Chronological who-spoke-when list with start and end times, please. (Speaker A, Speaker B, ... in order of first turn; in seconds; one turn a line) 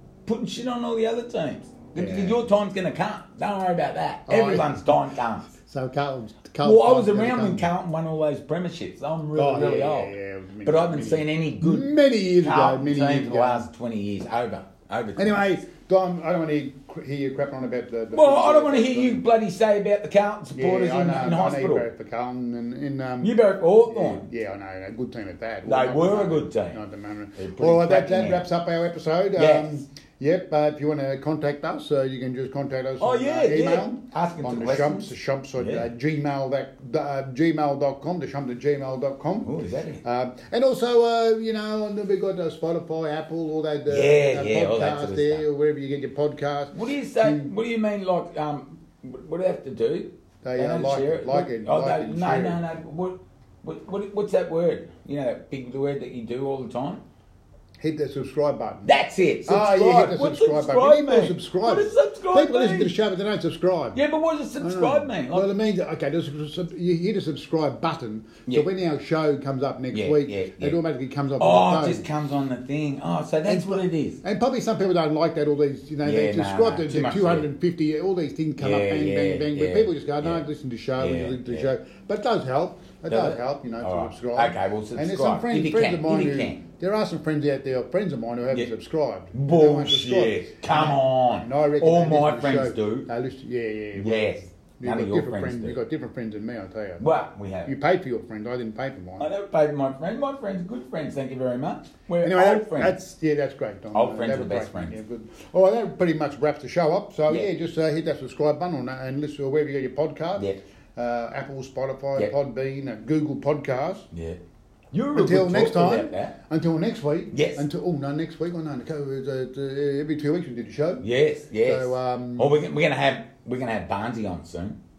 Speaker A: 0.2-5.5
Speaker B: 1.9-2.5
Speaker B: 4.3-4.8
Speaker B: 5.5-7.7
Speaker A: 6.6-15.6
Speaker B: 9.3-13.7
Speaker B: 15.2-19.2
Speaker A: 18.1-21.8
Speaker B: 20.5-23.4
Speaker A: 23.2-24.3
Speaker B: 23.9-39.5
Speaker A: 25.6-26.8
Speaker A: 27.4-28.5
Speaker A: 29.4-29.8
Speaker A: 33.0-35.9
Speaker A: 39.4-40.0
Speaker B: 40.0-47.5
Speaker A: 43.9-45.4
Speaker A: 46.7-57.0
Speaker B: 50.4-52.6
Speaker B: 57.8-58.9
Speaker A: 58.8-62.9
Speaker B: 59.5-64.0
Speaker A: 63.9-65.5
Speaker B: 64.6-72.1
Speaker A: 69.9-70.8
Speaker A: 71.4-74.2
Speaker B: 73.5-97.1
Speaker A: 76.0-77.5
Speaker A: 78.6-80.4
Speaker A: 81.0-81.7
Speaker A: 83.1-86.6
Speaker A: 89.3-93.1
Speaker A: 94.0-95.8
Speaker A: 97.0-97.7
Speaker B: 97.7-99.3
Speaker A: 99.2-102.9
Speaker B: 102.2-114.1
Speaker A: 103.9-105.0
Speaker A: 114.1-114.4
Speaker A: 114.9-116.3
Speaker B: 115.1-121.0
Speaker A: 117.3-117.7
Speaker A: 121.0-124.8
Speaker B: 121.6-122.5